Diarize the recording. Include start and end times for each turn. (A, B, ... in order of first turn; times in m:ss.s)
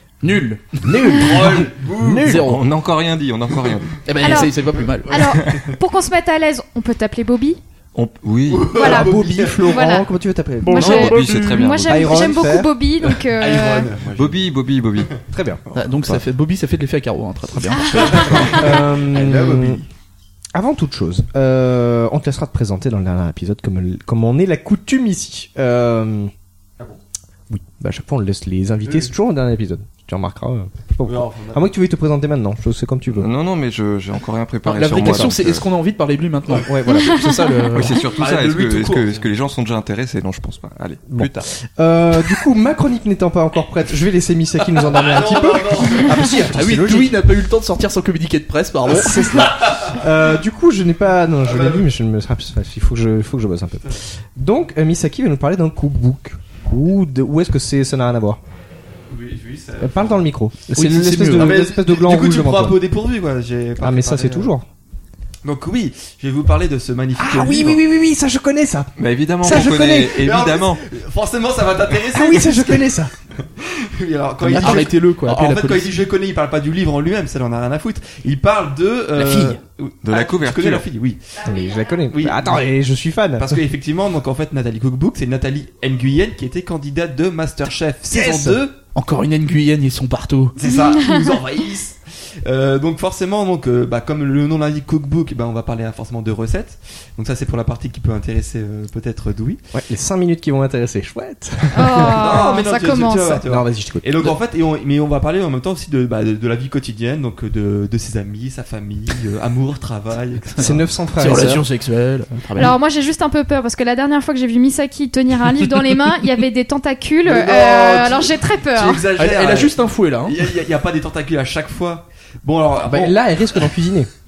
0:00.2-0:01.5 A
0:00.8-0:02.6 B
0:01.1-0:02.3 C
0:02.1-0:04.3 D
0:02.2-0:02.6 A
0:03.6-0:04.0 C
0:04.1-0:05.4 A
0:04.2-0:07.6 E
0:05.2-0:05.8 D
0:08.0-0:08.8 D
0:08.5-0:09.9 C
0:08.7-0:10.1 E
0:08.8-0:11.2 B
0:10.6-0:11.7 A
0:10.6-0:13.9 E
0:10.8-0:12.2 D
0:11.8-0:12.8 B
0:13.4-0:15.1 C
0:14.1-0:15.2 D
0:15.3-0:15.6 B
0:15.8-0:18.5 A
0:17.7-0:18.8 E
0:17.9-0:19.9 C
0:18.2-0:19.8 B
0:20.5-0:26.3 B
0:27.5-0:33.3 B
0:28.8-0:29.1 C
0:31.0-0:31.7 C
0:33.1-0:35.6 D
0:34.6-0:38.8 A
0:35.0-0:35.3 B
0:36.7-0:37.9 B
0:37.0-0:37.4 E
0:37.7-0:41.5 D
0:38.1-0:39.3 C
0:41.1-0:47.2 B
0:44.8-0:46.3 C
0:46.2-0:49.5 A
0:49.0-0:58.4 B
0:49.1-0:50.0 C
0:51.4-0:51.8 C
0:59.1-1:00.3 C
0:59.8-1:02.8 B
1:00.7-1:01.6 A
1:01.3-1:04.5 C
1:03.8-1:04.7 B
1:05.4-1:07.8 C
1:07.2-1:10.3 B
1:09.0-1:10.8 D
1:09.5-1:21.4 C
1:12.0-1:13.1 B
1:14.4-1:14.9 B
1:14.5-1:15.9 A
1:19.2-1:19.6 A
1:20.0-1:20.8 D
1:21.4-1:23.6 B
1:22.1-1:22.6 C
1:23.4-1:28.8 C
1:28.1-1:28.6 B
1:29.0-1:30.6 A
1:30.6-1:39.6 C
1:30.7-1:31.2 E
1:39.7-1:42.5 B
1:41.7-1:43.4 E
1:41.8-1:50.8 C
1:43.5-1:44.4 B
1:50.6-1:51.6 B
1:51.2-1:52.8 A
1:52.6-1:59.1 E
1:57.2-2:03.6 C
1:59.2-2:00.4 A
2:02.8-2:04.1 B